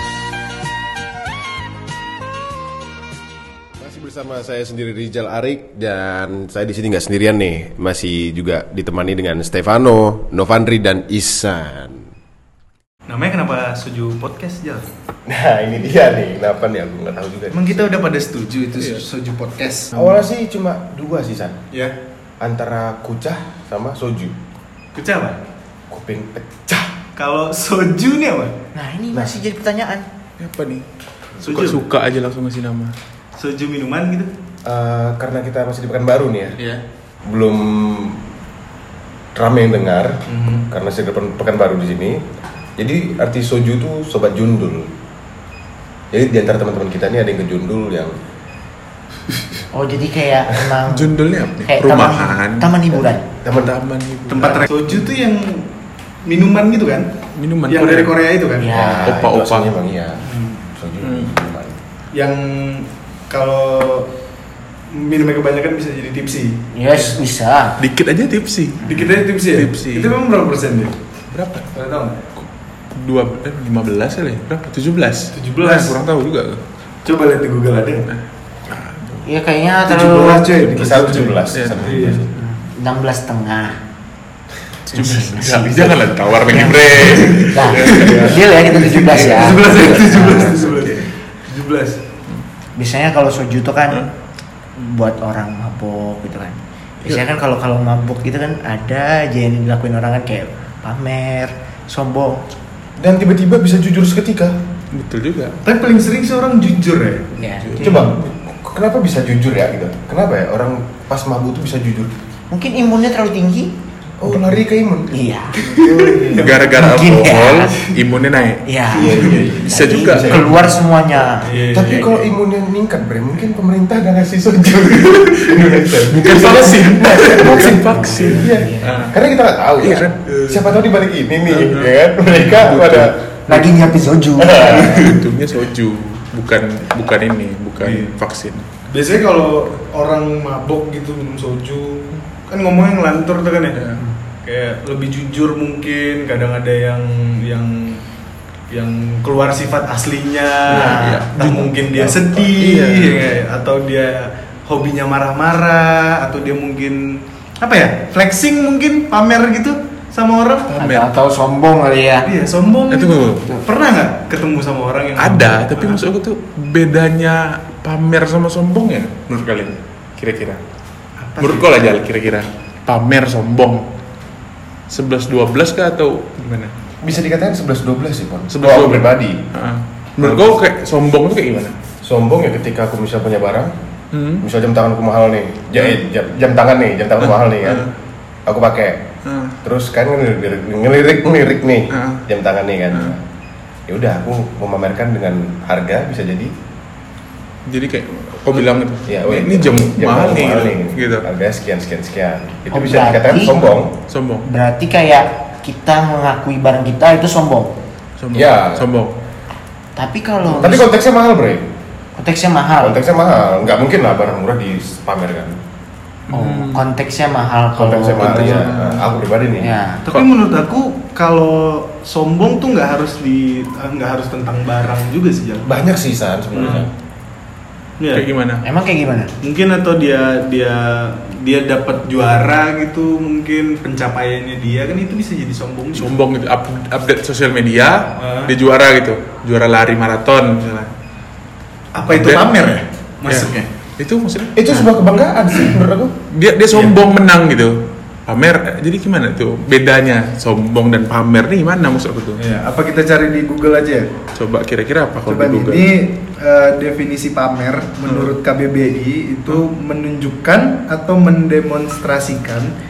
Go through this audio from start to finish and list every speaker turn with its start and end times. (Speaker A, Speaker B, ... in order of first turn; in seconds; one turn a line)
Speaker A: 3.8-12.1
Speaker B: 13.1-14.9
Speaker A: 15.3-17.9
Speaker B: 17.5-20.0
Speaker C: 18.8-19.1
Speaker A: 19.9-21.6
Speaker A: 22.4-24.4
Speaker B: 24.9-25.4
Speaker A: 25.9-26.9
Speaker B: 27.2-28.5
Speaker D: 28.8-30.1
Speaker A: 29.1-29.4
Speaker C: 30.4-30.9
Speaker B: 31.4-31.8
Speaker C: 31.4-33.0
Speaker B: 33.4-34.3
Speaker A: 34.6-36.6
Speaker B: 36.6-36.8
Speaker A: 37.3-38.2
Speaker A: 39.4-42.2
Speaker B: 40.3-40.7
Speaker A: 42.8-44.9
Speaker A: 46.1-48.1
Speaker D: 49.7-53.2
Speaker C: 50.9-52.7
Speaker A: 53.5-53.7
Speaker C: 53.5-55.1
Speaker B: 54.3-55.7
Speaker B: 56.2-57.1
Speaker C: 57.4-58.2
Speaker B: 57.7-58.8
Speaker D: 58.6-59.2
Speaker A: 58.7-61.8
Speaker C: 59.0-59.7
Speaker B: 60.2-60.6
Speaker C: 61.0-61.3
Speaker B: 62.1-64.1
Speaker B: 64.9-66.6
Speaker D: 66.7-67.8
Speaker C: 67.8-70.2
Speaker B: 68.8-70.9
Speaker C: 71.3-71.7
Speaker B: 71.7-72.2
Speaker C: 72.4-76.6
Speaker B: 75.3-76.0
Speaker B: 77.0-78.1
Speaker C: 78.1-79.3
Speaker D: 79.2-80.5
Speaker B: 79.9-82.2
Speaker A: 80.7-82.3
Speaker C: 81.5-81.9
Speaker D: 82.3-83.8
Speaker C: 84.9-91.1
Speaker D: 84.9-85.9
Speaker D: 86.5-90.6
Speaker B: 86.9-92.0
Speaker D: 92.8-94.1
Speaker D: 94.8-102.4
Speaker A: 103.0-104.5
Speaker C: 104.9-105.6
Speaker B: 105.6-108.2
Speaker D: 107.4-107.8
Speaker C: 107.6-108.0
Speaker A: 107.8-112.1
Speaker D: 112.5-113.7
Speaker A: 114.2-115.2
Speaker D: 115.1-115.6
Speaker B: 115.6-116.9
Speaker A: 115.7-116.5
Speaker C: 116.3-120.5
Speaker D: 116.8-117.7
Speaker B: 117.7-118.0
Speaker D: 118.7-121.5
Speaker A: 118.9-120.7
Speaker B: 119.0-119.5
Speaker B: 121.4-122.2
Speaker A: 121.7-133.2
Speaker C: 121.8-122.1
Speaker C: 126.1-128.5
Speaker B: 127.4-127.7
Speaker D: 127.9-129.0
Speaker B: 128.8-129.2
Speaker C: 129.8-130.7
Speaker C: 131.5-133.7
Speaker D: 133.5-135.1
Speaker A: 134.4-135.1
Speaker C: 134.6-138.7
Speaker B: 134.7-135.2
Speaker B: 137.8-138.2
Speaker B: 138.9-143.8
Speaker C: 143.8-144.0
Speaker B: 144.4-148.0
Speaker B: 148.7-160.7
Speaker D: 150.7-151.3
Speaker C: 150.7-151.2
Speaker A: 151.3-152.6
Speaker C: 152.6-153.2
Speaker C: 160.7-161.1
Speaker D: 160.8-162.3
Speaker B: 162.2-166.0
Speaker C: 162.9-163.5
Speaker C: 165.2-170.6
Speaker B: 171.2-171.8
Speaker C: 171.4-173.9
Speaker C: 174.9-176.7
Speaker A: 177.0-179.4
Speaker C: 178.5-181.8
Speaker A: 180.2-180.6
Speaker A: 182.0-183.7
Speaker C: 184.1-184.4
Speaker A: 184.4-187.9
Speaker C: 187.2-187.9
Speaker A: 188.5-189.1
Speaker C: 189.2-189.6
Speaker A: 189.6-193.2
Speaker C: 191.9-192.3
Speaker A: 193.9-196.5
Speaker C: 197.7-201.2
Speaker A: 199.1-203.9
Speaker D: 202.7-203.5
Speaker C: 204.1-204.5
Speaker D: 204.5-207.7
Speaker C: 208.2-209.2
Speaker A: 208.3-208.8
Speaker D: 210.0-210.9
Speaker A: 210.6-211.7
Speaker D: 212.2-213.0
Speaker A: 212.8-215.6
Speaker C: 216.3-216.8
Speaker D: 216.3-218.7
Speaker A: 217.8-219.7
Speaker C: 218.2-219.2
Speaker D: 219.6-220.1
Speaker B: 220.1-225.8
Speaker A: 225.7-226.9
Speaker B: 226.5-226.9
Speaker B: 228.0-228.3
Speaker C: 228.1-228.6
Speaker D: 228.6-229.3
Speaker B: 229.4-236.1
Speaker C: 235.9-240.9
Speaker B: 238.2-238.5
Speaker B: 241.9-243.7
Speaker C: 242.1-242.5
Speaker C: 243.3-244.7
Speaker A: 244.6-246.2
Speaker C: 246.3-252.4
Speaker B: 252.4-254.1
Speaker C: 254.3-255.9
Speaker B: 255.2-262.7
Speaker C: 258.1-258.3